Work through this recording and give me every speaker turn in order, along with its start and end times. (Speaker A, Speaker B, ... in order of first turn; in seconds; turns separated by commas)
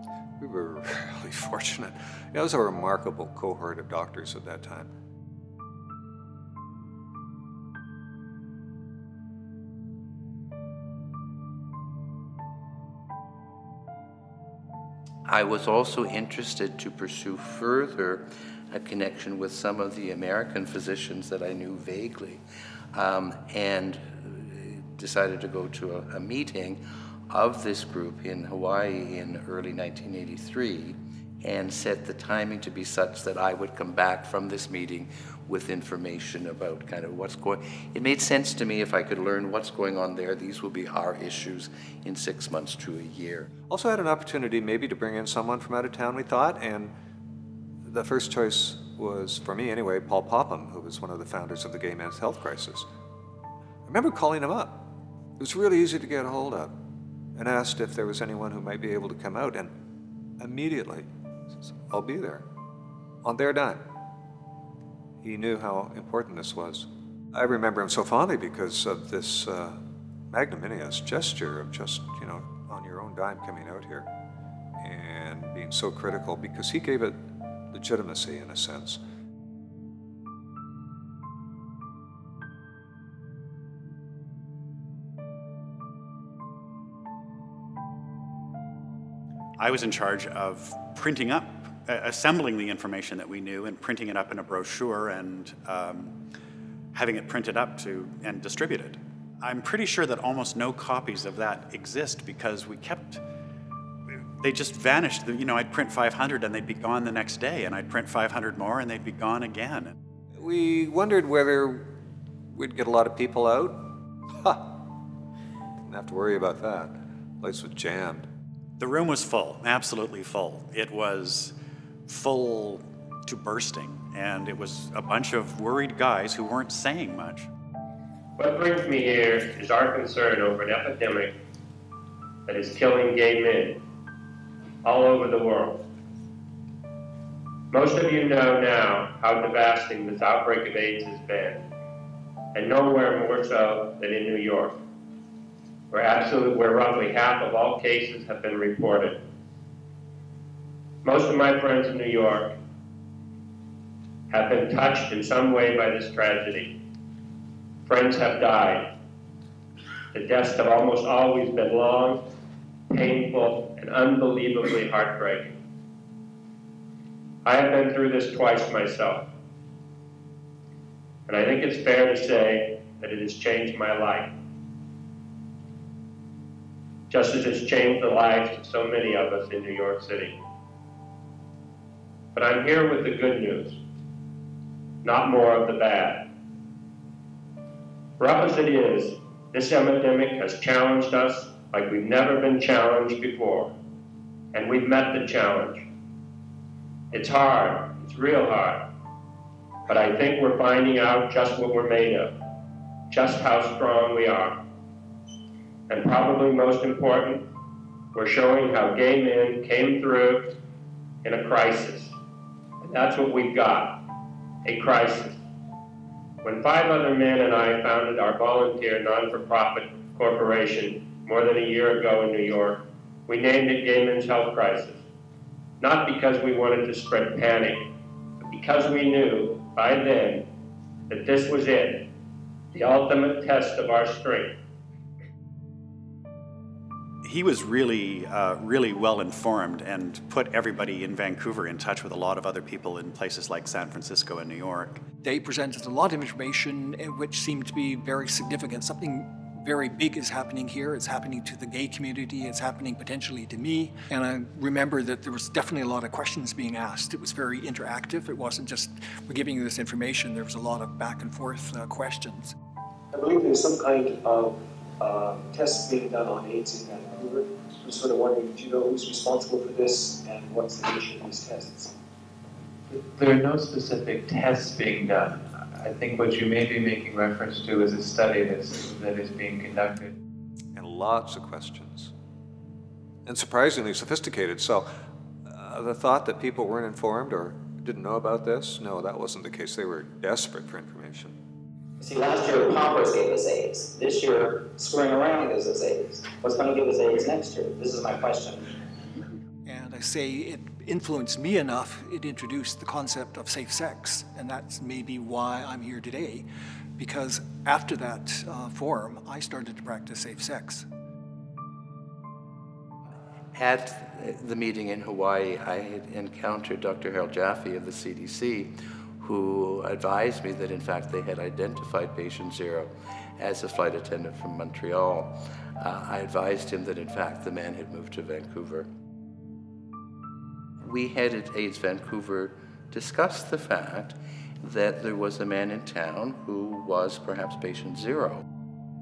Speaker A: 0.4-4.9, Speaker B: 15.3-22.4, Speaker B: 22.9-43.5, Speaker A: 43.7-46.9, Speaker A: 47.8-52.9, Speaker A: 53.9-54.9, Speaker A: 55.4-56.7, Speaker A: 57.4-59.7, Speaker A: 60.4-62.4, Speaker A: 63.2-63.8, Speaker A: 65.2-69.8, Speaker A: 70.3-74.1, Speaker A: 74.8-77.2, Speaker A: 77.7-79.0, Speaker C: 89.6-96.1, Speaker C: 96.9-103.2, Speaker C: 104.4-109.9, Speaker A: 110.4-111.9, Speaker A: 112.5-114.8, Speaker A: 115.8-118.3, Speaker C: 118.8-121.5, Speaker C: 122.1-127.5, Speaker D: 128.4-131.3, Speaker D: 132.5-133.8, Speaker D: 134.8-135.8, Speaker D: 137.7-141.6, Speaker D: 142.5-144.8, Speaker D: 145.9-149.2, Speaker D: 151.0-152.5, Speaker D: 154.3-156.7, Speaker D: 157.8-158.9, Speaker D: 160.1-162.2, Speaker D: 162.9-165.6, Speaker D: 167.4-169.3, Speaker D: 171.3-174.3, Speaker D: 177.1-180.4, Speaker D: 182.3-183.8, Speaker D: 185.0-186.3, Speaker D: 188.2-193.7, Speaker D: 194.5-195.9, Speaker D: 197.1-198.9, Speaker D: 199.9-202.3, Speaker D: 203.1-204.6, Speaker D: 205.9-207.4, Speaker D: 208.1-210.5, Speaker D: 211.2-212.1, Speaker D: 212.8-214.0, Speaker D: 214.6-215.4, Speaker D: 216.4-225.0, Speaker D: 225.8-227.9, Speaker D: 228.4-230.4, Speaker D: 231.1-232.1, Speaker D: 232.7-234.5, Speaker C: 237.2-245.0, Speaker E: 245.2-262.5, Speaker F: 263.1-271.9, Speaker G: 272.9-280.1, Speaker A: 280.7-282.1, Speaker A: 283.2-284.9, Speaker A: 285.5-291.3, Speaker H: 292.0-298.6, Speaker E: 299.6-306.4, Speaker E: 307.0-310.9, Speaker B: 313.5-328.9, Speaker B: 330.8-338.4